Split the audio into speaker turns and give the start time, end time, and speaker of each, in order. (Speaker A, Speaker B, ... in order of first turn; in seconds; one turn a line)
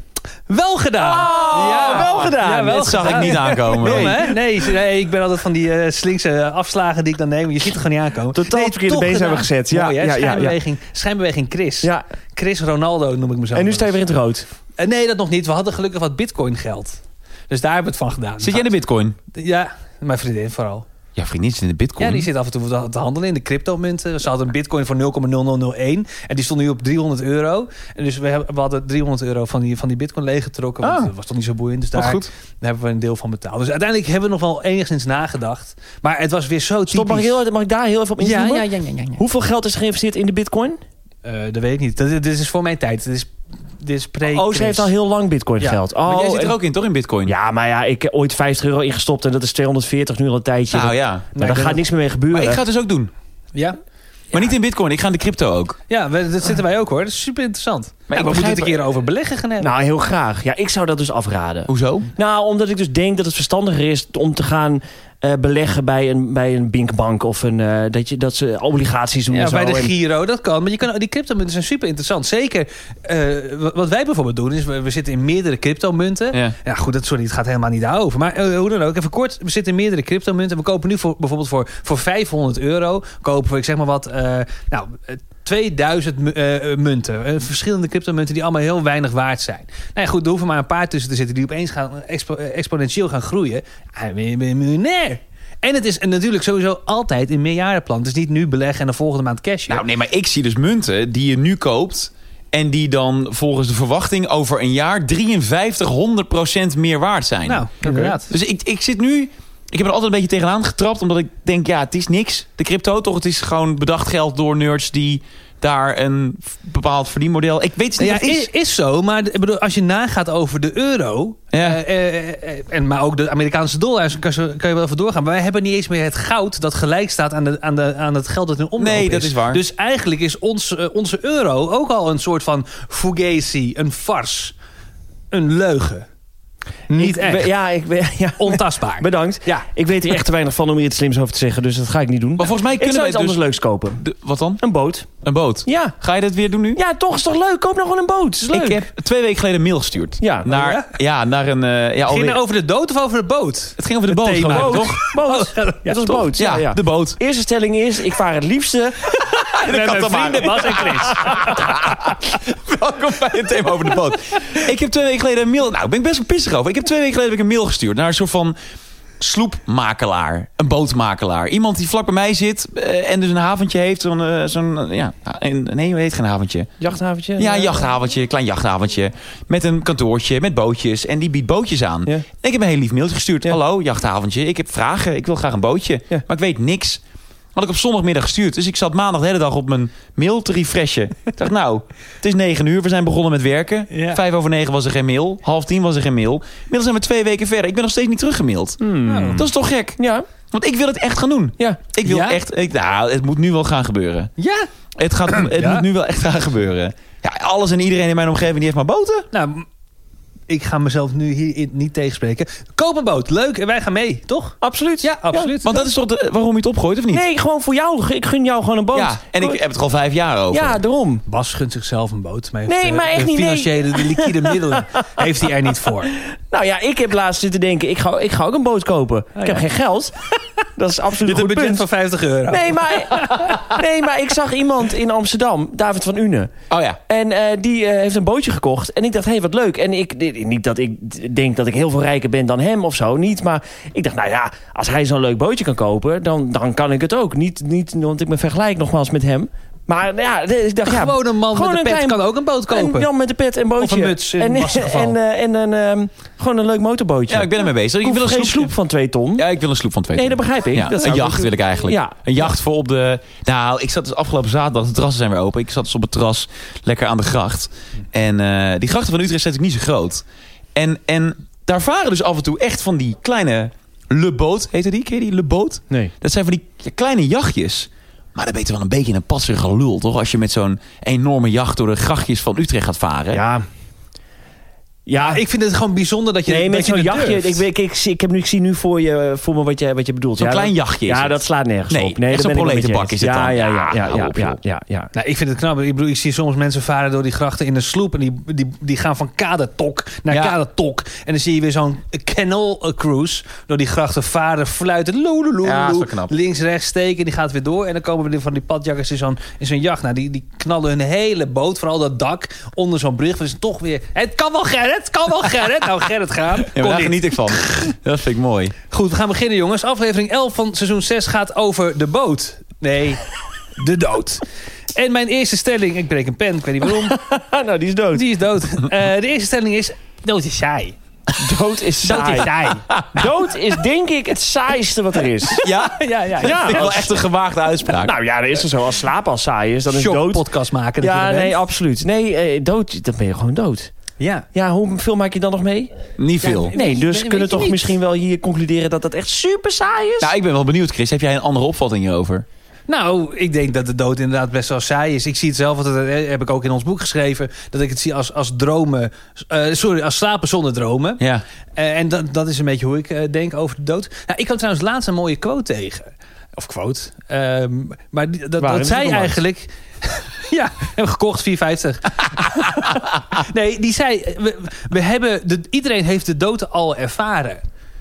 Speaker A: 0.5-14.0
Speaker B: 1.0-4.3
Speaker C: 1.6-2.1
Speaker C: 2.7-4.2
Speaker B: 8.3-10.6
Speaker B: 13.5-14.5
Speaker A: 14.8-18.8
Speaker C: 18.4-19.2
Speaker A: 19.3-20.9
Speaker C: 21.1-22.3
Speaker A: 22.0-37.4
Speaker C: 30.8-31.1
Speaker C: 31.9-32.3
Speaker B: 36.9-40.8
Speaker A: 38.2-39.2
Speaker A: 41.2-44.9
Speaker B: 44.2-46.6
Speaker C: 46.0-47.3
Speaker B: 47.2-52.6
Speaker C: 50.7-51.3
Speaker A: 51.3-51.8
Speaker C: 52.3-53.1
Speaker C: 54.3-55.8
Speaker A: 55.9-59.7
Speaker C: 58.1-58.8
Speaker B: 59.6-69.9
Speaker C: 61.7-62.1
Speaker A: 69.3-99.8
Speaker C: 99.7-118.5
Speaker A: 107.5-108.3
Speaker B: 107.8-108.1
Speaker A: 118.0-134.5
Speaker C: 121.5-121.8
Speaker C: 128.8-129.6
Speaker A: 135.3-136.1
Speaker A: 136.9-137.5
Speaker B: 137.0-144.0
Speaker A: 138.4-139.7
Speaker C: 142.4-143.4
Speaker C: 144.0-144.6
Speaker B: 144.6-145.1
Speaker C: 145.2-146.8
Speaker B: 145.7-145.9
Speaker B: 146.7-148.9
Speaker C: 148.5-152.4
Speaker B: 150.2-150.5
Speaker A: 150.4-150.9
Speaker A: 152.1-156.2
Speaker C: 153.8-155.1
Speaker B: 154.5-159.0
Speaker C: 156.1-157.2
Speaker C: 159.2-168.6
Speaker A: 159.6-161.6
Speaker C: 169.2-176.7
Speaker B: 176.8-177.9
Speaker C: 177.4-187.0
Speaker C: 187.5-198.8
Speaker A: 193.9-194.2
Speaker B: 198.8-200.3
Speaker A: 199.1-199.5
Speaker C: 199.3-200.0
Speaker C: 200.5-204.3
Speaker A: 202.0-202.4
Speaker A: 204.4-204.7
Speaker C: 205.0-209.3
Speaker A: 205.3-205.8
Speaker A: 209.3-209.7
Speaker A: 210.5-215.9
Speaker B: 214.6-215.5
Speaker C: 215.6-217.2
Speaker B: 217.1-219.6
Speaker C: 218.9-220.8
Speaker B: 220.5-221.2
Speaker A: 221.3-226.1
Speaker B: 222.7-224.8
Speaker B: 226.5-230.1
Speaker A: 229.3-229.6
Speaker B: 230.8-231.8
Speaker A: 231.2-233.6
Speaker B: 232.5-236.5
Speaker C: 236.7-237.0
Speaker B: 237.1-259.4
Speaker A: 250.8-253.1
Speaker A: 253.8-255.2
Speaker C: 257.3-258.7
Speaker C: 259.4-270.2
Speaker B: 260.1-262.2
Speaker C: 270.7-283.4
Speaker B: 283.3-283.6
Speaker B: 285.1-285.4
Speaker A: 285.2-287.6
Speaker B: 286.5-295.1
Speaker C: 290.4-294.6
Speaker A: 295.1-317.9
Speaker C: 300.3-300.5
Speaker C: 305.6-306.3
Speaker C: 316.7-318.8
Speaker A: 318.9-323.2
Speaker A: 323.8-327.2
Speaker B: 326.9-328.3
Speaker A: 328.1-330.9
Speaker B: 331.4-332.5
Speaker A: 332.0-332.8
Speaker C: 332.9-333.2
Speaker B: 333.1-335.6
Speaker C: 335.6-338.1
Speaker A: 335.8-337.0
Speaker B: 336.4-337.1
Speaker B: 338.0-340.4
Speaker A: 339.9-341.6
Speaker B: 341.0-343.9
Speaker A: 344.2-344.4
Speaker B: 344.5-345.9
Speaker C: 346.2-346.7
Speaker A: 346.4-347.9
Speaker B: 346.7-350.3
Speaker C: 350.2-352.4
Speaker A: 352.9-361.2
Speaker A: 361.7-377.6
Speaker B: 368.6-369.4